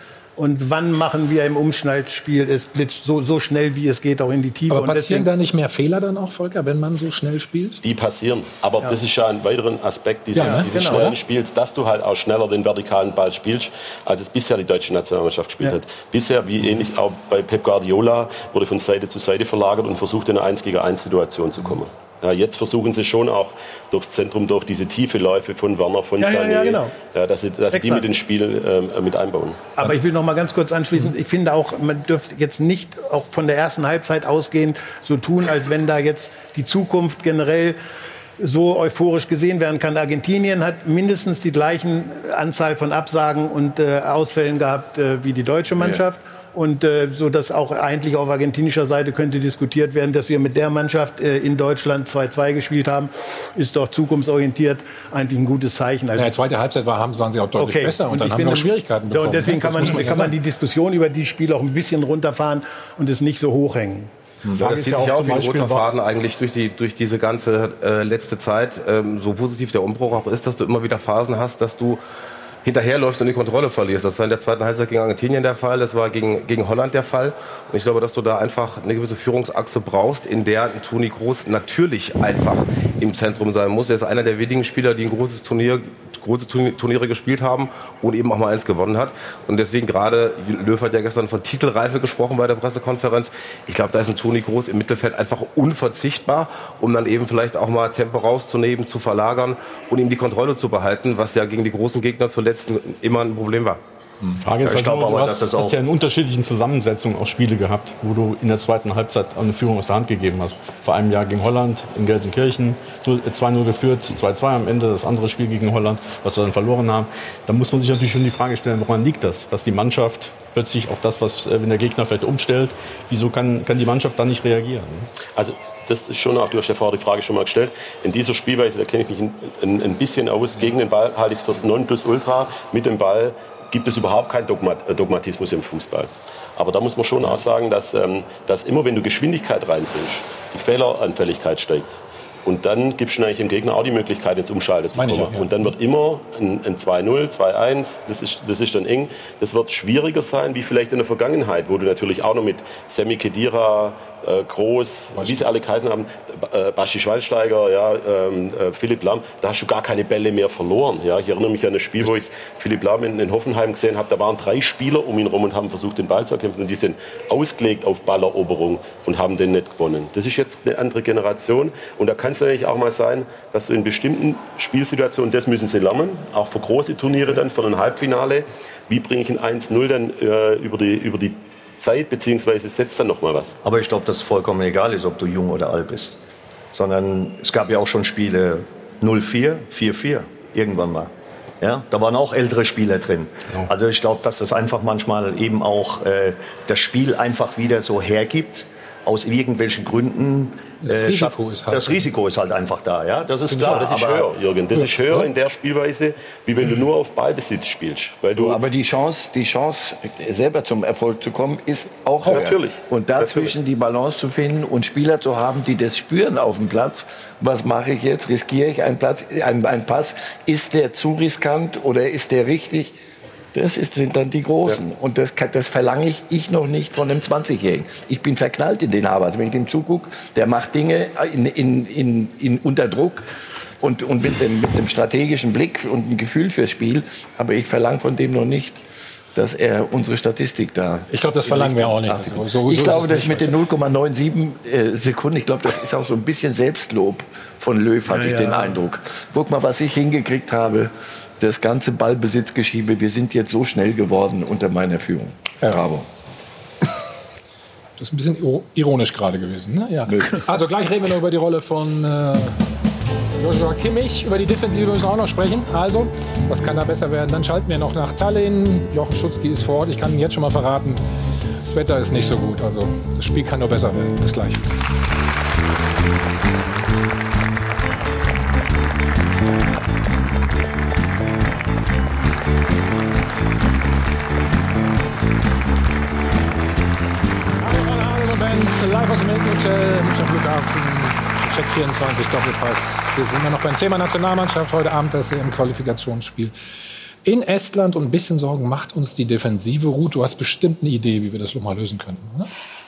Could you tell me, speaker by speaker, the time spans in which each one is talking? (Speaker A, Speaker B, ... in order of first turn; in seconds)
Speaker A: 0.4-5.3, 10.3-11.1, 26.2-26.9, 27.7-28.0, 29.8-37.8, 38.4-56.3, 57.6-64.1
Speaker B: 4.7-7.8, 10.3-11.2, 56.2-60.3, 144.9-145.5, 155.2-155.4, 200.8-202.1, 203.5-203.8, 204.8-205.3, 241.1-243.6, 258.0-262.6, 263.4-271.0, 271.6-274.7, 287.6-296.5, 297.2-302.5
Speaker C: 7.8-29.6, 125.4-183.6, 203.5-208.6, 212.3-213.6
Speaker D: 64.6-72.0, 72.6-103.8
Speaker E: 64.6-65.9, 104.4-125.1
Speaker F: 104.6-105.8, 183.6-186.2, 186.7-204.3
Speaker G: 208.3-222.9, 223.5-233.3, 233.8-238.8, 239.3-256.1, 260.1-260.5